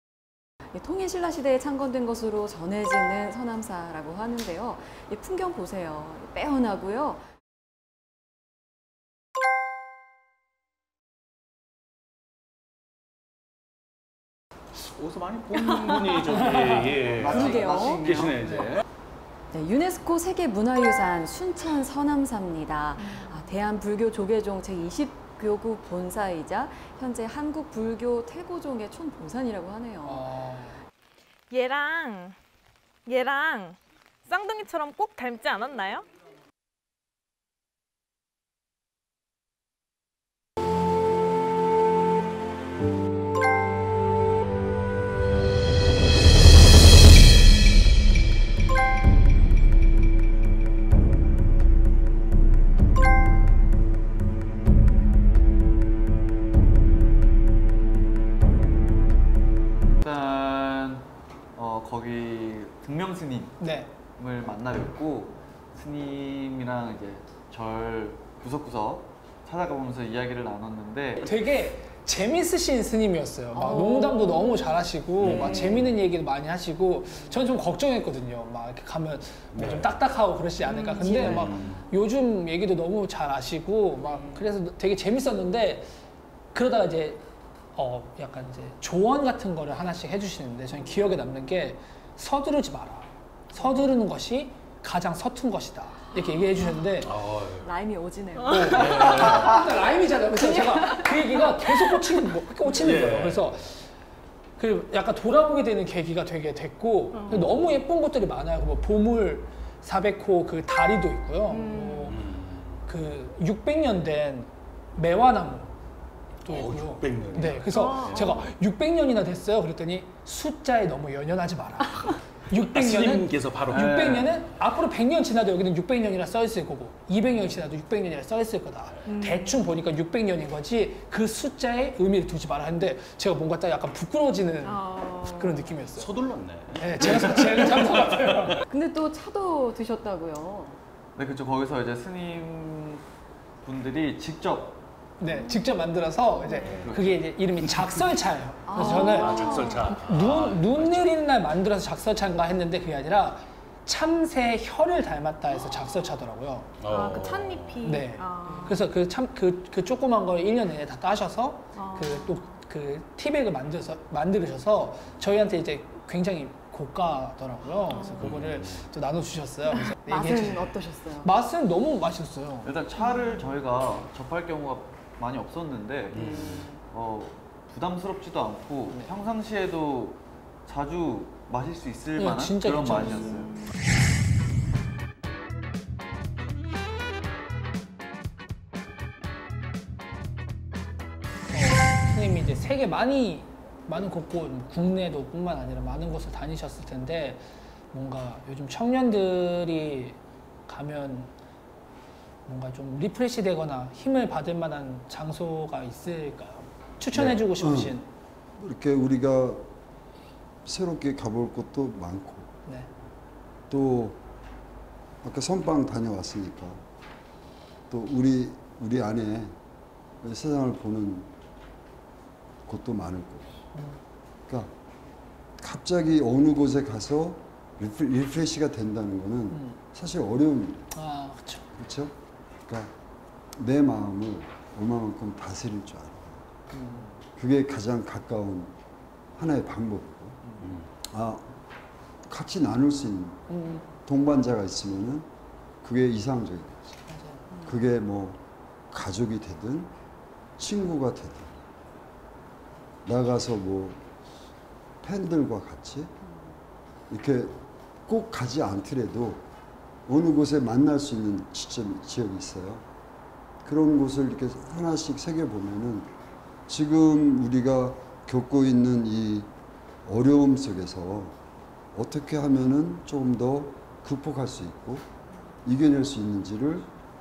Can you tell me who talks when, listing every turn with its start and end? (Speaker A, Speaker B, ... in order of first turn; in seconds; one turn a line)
Speaker A: 0.7-7.2
Speaker B: 14.7-18.8
Speaker A: 15.7-16.4
Speaker C: 17.1-18.4
Speaker A: 17.2-18.1
Speaker A: 19.5-30.3
Speaker D: 30.0-30.8
Speaker E: 31.5-32.4
Speaker E: 33.1-36.0
Speaker C: 60.0-63.6
Speaker D: 63.6-63.9
Speaker C: 64.2-71.3
Speaker D: 71.2-85.9
Speaker A: 73.5-74.2
Speaker E: 74.3-74.8
Speaker B: 75.2-75.9
Speaker B: 79.5-79.9
Speaker E: 80.7-81.3
Speaker A: 80.9-81.5
Speaker B: 81.3-81.8
Speaker A: 84.0-84.4
Speaker D: 86.5-87.2
Speaker D: 87.7-97.1
Speaker B: 97.0-97.7
Speaker A: 97.6-99.2
Speaker D: 98.4-103.9
Speaker C: 98.9-99.5
Speaker A: 100.3-101.0
Speaker B: 102.7-103.5
Speaker D: 104.6-112.2
Speaker E: 107.1-107.5
Speaker B: 107.3-107.6
Speaker E: 111.5-112.1
Speaker B: 112.0-112.8
Speaker D: 112.8-115.7
Speaker B: 116.4-118.4
Speaker D: 116.4-136.1
Speaker E: 117.7-118.5
Speaker B: 122.5-124.0
Speaker C: 123.7-124.3
Speaker E: 129.1-129.7
Speaker E: 134.6-135.8
Speaker B: 135.9-138.6
Speaker D: 136.8-138.6
Speaker A: 138.7-140.8
Speaker C: 141.2-143.0
Speaker C: 143.6-144.8
Speaker D: 145.2-156.7
Speaker E: 145.3-145.6
Speaker B: 146.6-146.9
Speaker C: 146.8-147.2
Speaker B: 147.6-148.1
Speaker A: 148.7-149.9
Speaker B: 148.7-151.1
Speaker E: 155.5-155.9
Speaker B: 156.8-157.8
Speaker E: 156.8-158.8
Speaker D: 157.8-172.7
Speaker A: 158.4-158.7
Speaker E: 161.7-162.5
Speaker E: 167.8-168.4
Speaker B: 168.2-168.8
Speaker A: 170.0-171.3
Speaker C: 172.6-183.5
Speaker B: 176.1-176.7
Speaker A: 176.1-176.7
Speaker D: 182.2-183.4
Speaker D: 191.5-201.3
Speaker D: 202.4-208.1
Speaker F: 207.1-207.9
Speaker F: 208.6-209.7
Speaker F: 210.6-212.5
Speaker F: 213.7-214.2
Speaker F: 215.2-216.8
Speaker F: 217.9-219.5
Speaker F: 220.2-221.3
Speaker F: 222.7-223.6
Speaker D: 223.7-224.0
Speaker F: 225.6-230.9
Speaker D: 229.5-229.8
Speaker D: 230.9-231.7
Speaker F: 231.8-232.1
Speaker F: 233.6-236.4
Speaker D: 236.7-237.2
Speaker F: 237.4-238.7
Speaker F: 239.3-240.5
Speaker D: 240.4-240.7
Speaker B: 240.6-240.9
Speaker F: 241.1-241.4
Speaker F: 242.3-243.5
Speaker D: 243.5-243.8
Speaker F: 244.0-245.3
Speaker F: 245.8-246.9
Speaker D: 247.1-247.4
Speaker A: 247.5-247.8
Speaker F: 247.6-248.4
Speaker F: 248.9-249.9
Speaker F: 250.6-251.5
Speaker F: 253.1-254.0
Speaker F: 255.0-256.1
Speaker A: 256.2-256.5
Speaker F: 257.1-259.4
Speaker F: 260.1-262.8
Speaker F: 263.6-266.1
Speaker F: 266.7-269.5
Speaker F: 270.0-271.3
Speaker F: 271.9-275.1
Speaker F: 275.6-276.9